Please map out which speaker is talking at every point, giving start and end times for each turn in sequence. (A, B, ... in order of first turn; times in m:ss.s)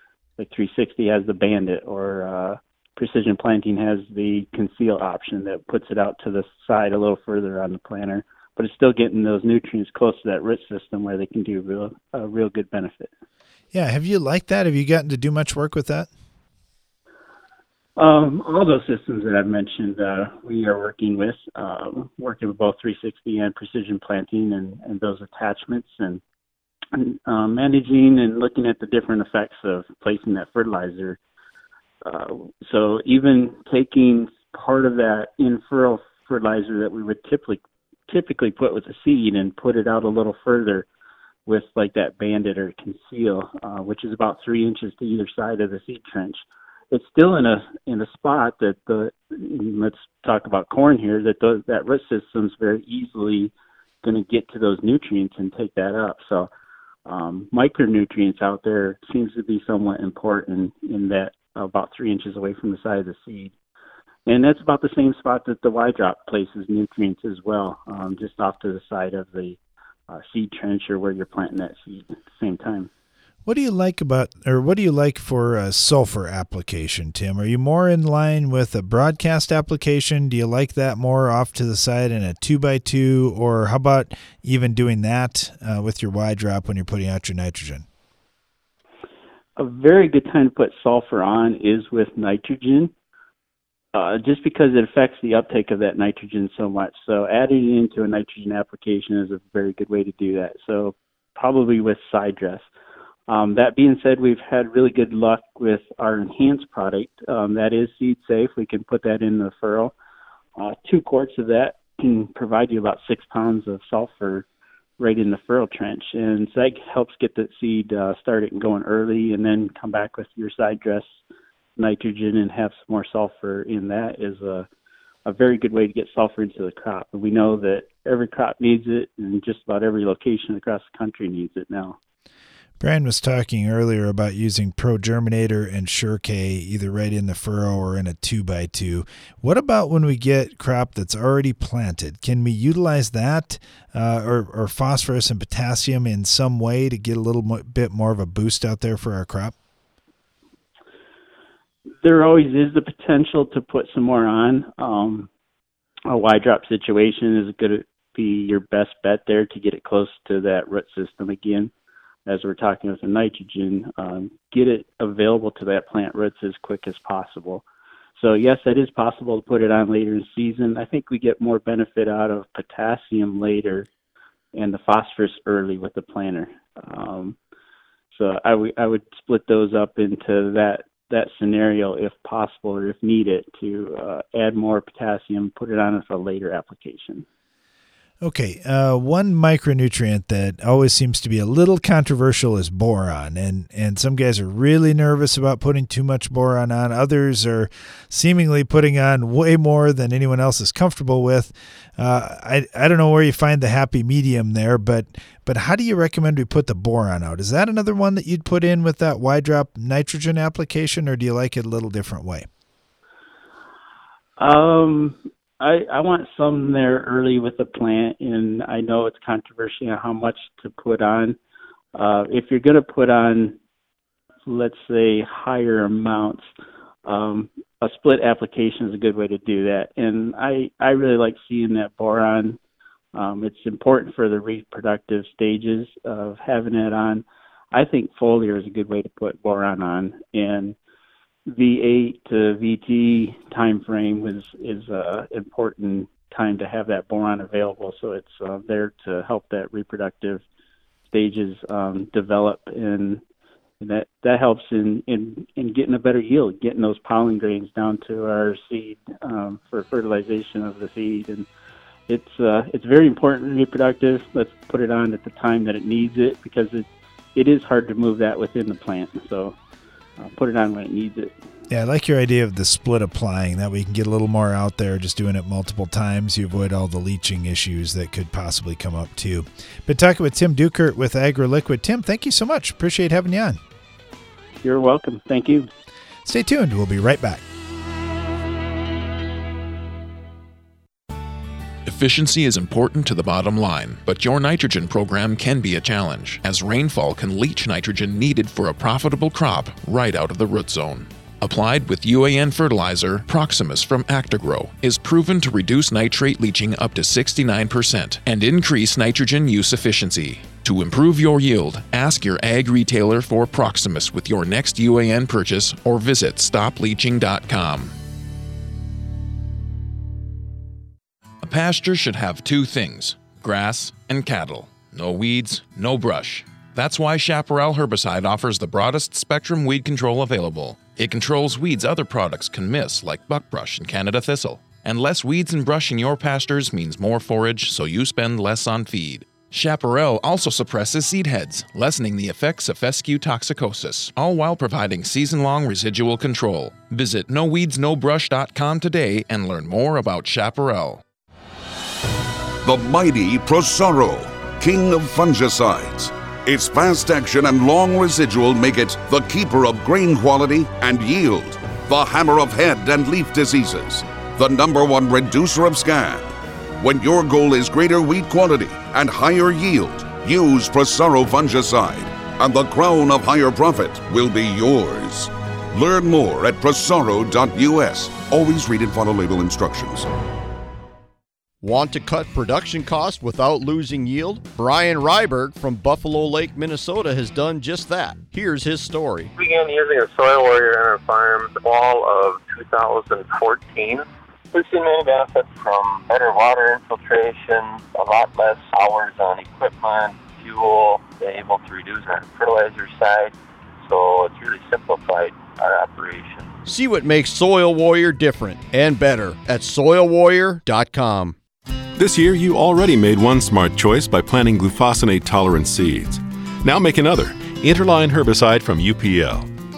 0:00.4-0:13.1 A
0:13.7-0:16.1 B
0:18.0-0:26.2 A
0:26.9-0:31.2 A
0:32.0-0:40.9 A
0:41.5-0:56.5 A
0:57.1-1:03.5 A
1:04.3-1:09.6 A
1:10.1-1:12.9 A
1:13.5-1:27.8 B
1:29.6-1:32.9 A
1:33.9-1:42.7 A
1:43.3-1:49.9 A
1:50.6-1:54.5 A
1:55.0-2:01.2 A
2:01.8-2:04.7 A
2:05.3-2:12.0 A
2:12.8-2:29.5 B
2:32.0-2:35.3 A
2:36.1-2:41.7 A
2:42.3-2:47.6 A
2:48.2-2:53.9 A
2:54.5-2:57.4 A
2:58.1-3:07.3 A
3:08.2-3:32.5 B
3:34.4-3:41.4 A
3:42.0-3:43.6 A
3:44.5-3:46.5 A
3:47.0-3:52.6 A
3:53.2-4:00.8 A
4:01.5-4:10.4 A
4:11.1-4:13.2 A
4:13.8-4:21.5 A
4:22.1-4:29.6 A
4:30.2-4:31.4 A
4:31.7-4:43.6 B
4:44.6-4:45.7 A
4:46.2-4:47.4 B
4:51.8-5:17.9 C
5:21.4-5:51.0 C
5:52.6-6:20.1 D
6:21.6-6:29.3 E
6:29.4-6:46.5 F
6:46.6-6:51.4 E
6:52.0-6:59.5 G